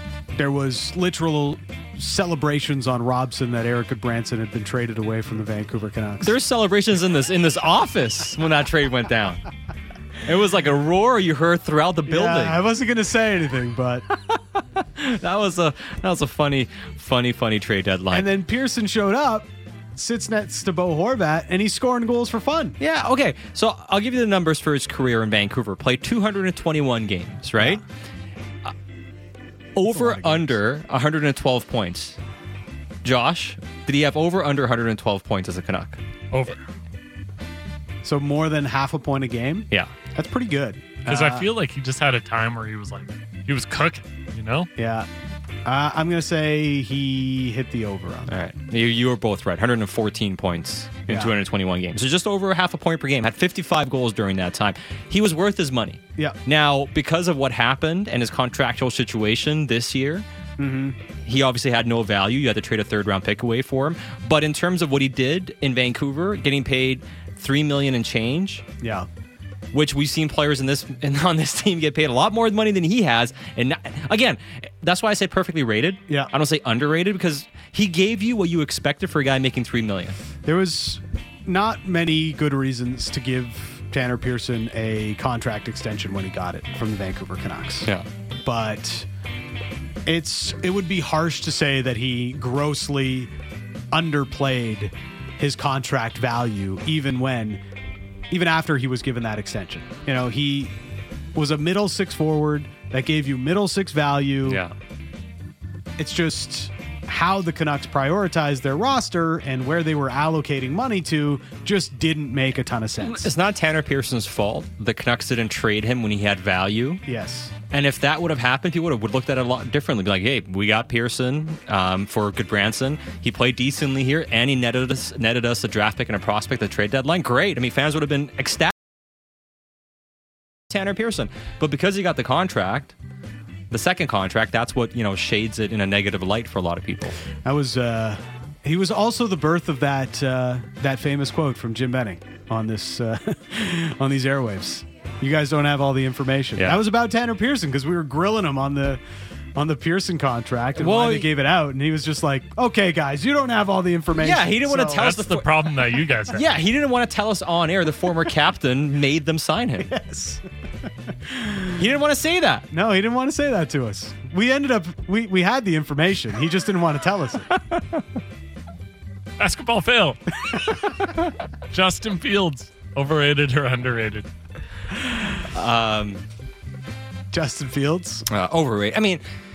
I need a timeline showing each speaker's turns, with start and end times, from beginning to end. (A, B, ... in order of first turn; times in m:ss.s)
0:00.4-0:06.4 A
0:06.2-0:09.4 B
0:10.2-0:12.6 B
0:12.1-0:14.0 A
0:14.1-0:18.3 B
0:18.1-0:22.8 A
0:22.8-0:27.8 B
0:29.7-0:32.2 B
0:29.9-0:30.6 A
0:33.0-0:36.0 B
0:36.3-0:36.6 C
0:38.0-0:41.5 A
0:41.1-0:44.7 C
0:44.8-0:45.1 A
0:45.6-0:48.4 A
0:48.3-1:00.2 B
0:51.1-0:51.3 A
1:00.6-1:01.0 A
1:01.2-1:08.6 B
1:08.8-1:09.1 A
1:09.7-1:20.2 B
1:20.4-1:27.9 A
1:28.4-1:29.1 A
1:30.0-1:33.3 A
1:33.9-1:37.6 A
1:38.3-1:40.7 A
1:41.3-1:44.6 A
1:44.4-1:44.7 B
1:46.0-1:53.3 A
1:53.0-1:57.0 B
1:57.0-1:57.5 A
1:57.7-2:08.7 B
2:10.7-2:12.9 B
2:13.7-2:17.2 B
2:17.4-2:29.0 A
2:29.6-2:35.0 A
2:30.8-2:31.3 B
2:34.2-2:35.6 B
2:34.8-2:36.5 C
2:36.3-2:39.9 B
2:39.8-2:40.4 A
2:41.2-2:41.8 A
2:41.8-2:42.7 B
2:42.7-2:47.6 A
2:49.4-2:51.1 C
2:51.7-2:54.3 C
2:55.4-2:56.2 B
2:57.3-2:58.3 A
2:58.3-2:59.2 B